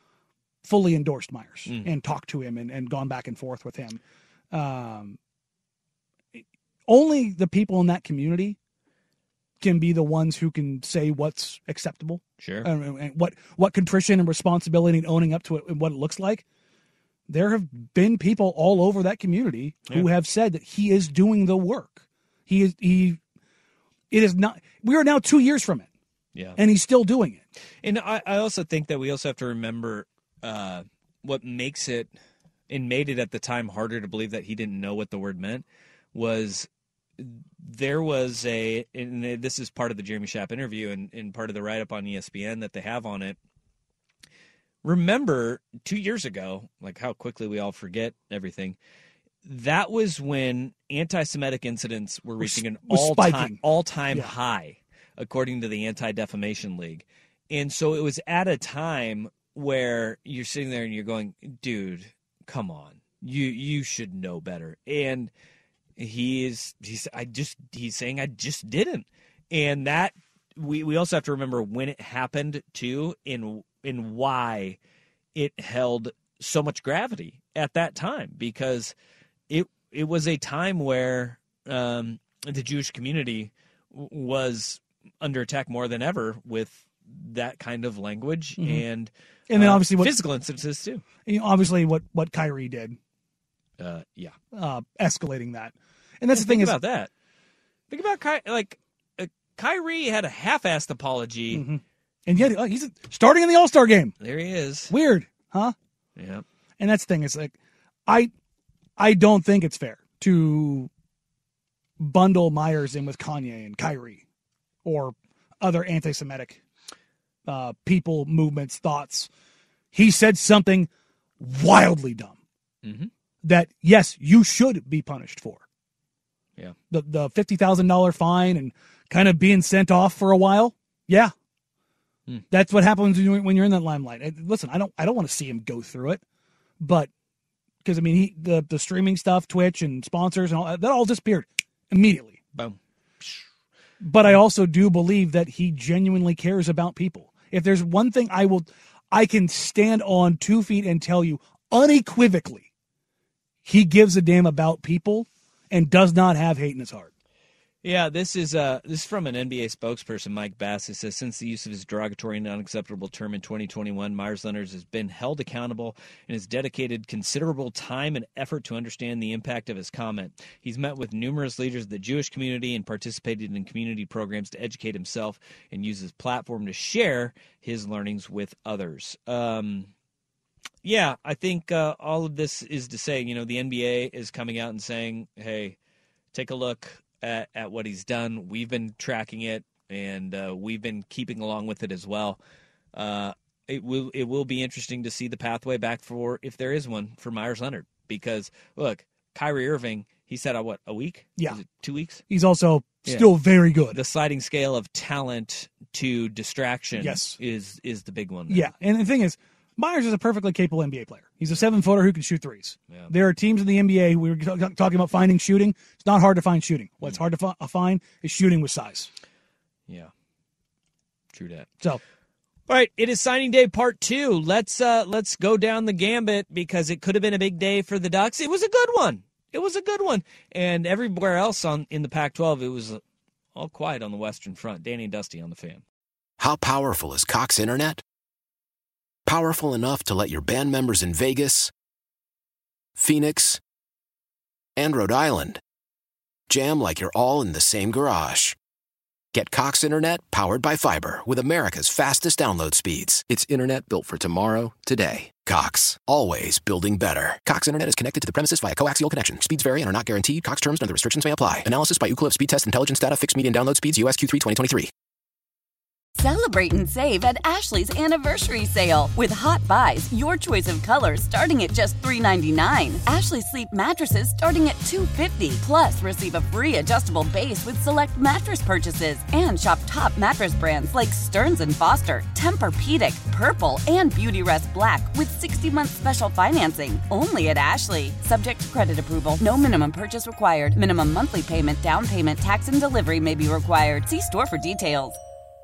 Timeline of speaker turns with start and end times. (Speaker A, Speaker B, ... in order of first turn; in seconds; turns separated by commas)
Speaker A: 0.6-5.2, Speaker A: 6.3-8.6, Speaker A: 9.6-16.4, Speaker B: 12.4-12.7, Speaker A: 17.3-23.2, Speaker A: 24.1-25.9, Speaker A: 26.6-27.4, Speaker B: 27.8-32.1, Speaker B: 32.7-43.4, Speaker B: 44.8-48.8, Speaker B: 49.4-65.3, Speaker A: 52.4-54.3, Speaker B: 66.0-74.8, Speaker B: 75.3-78.9, Speaker B: 79.5-91.0, Speaker A: 88.6-88.8, Speaker A: 89.5-90.2, Speaker A: 91.3-93.0, Speaker B: 93.8-94.4, Speaker A: 94.5-96.8, Speaker B: 96.3-97.1, Speaker B: 97.9-101.7, Speaker A: 101.5-104.2, Speaker B: 104.2-104.9, Speaker A: 104.9-105.8, Speaker B: 106.2-106.4, Speaker A: 106.8-107.6, Speaker A: 109.0-110.9, Speaker A: 112.0-114.2, Speaker A: 114.8-116.6, Speaker A: 117.5-119.3, Speaker A: 119.9-122.4, Speaker B: 122.8-123.1, Speaker A: 123.4-125.6, Speaker A: 126.9-131.3, Speaker A: 132.5-136.2, Speaker A: 136.8-137.1, Speaker A: 137.8-142.4, Speaker B: 142.5-143.4, Speaker A: 144.0-152.7, Speaker A: 153.7-157.1, Speaker B: 157.8-179.9, Speaker B: 180.8-185.8, Speaker B: 186.3-192.4, Speaker B: 192.9-202.2, Speaker A: 202.3-204.0, Speaker B: 203.9-208.7, Speaker A: 207.0-207.4, Speaker A: 208.5-219.1, Speaker B: 221.3-221.7, Speaker B: 222.7-233.0, Speaker B: 233.6-235.8, Speaker C: 236.4-238.0, Speaker C: 239.3-241.7, Speaker C: 243.0-243.6, Speaker C: 244.8-245.6, Speaker C: 246.5-248.6, Speaker C: 249.3-264.9, Speaker D: 266.2-295.2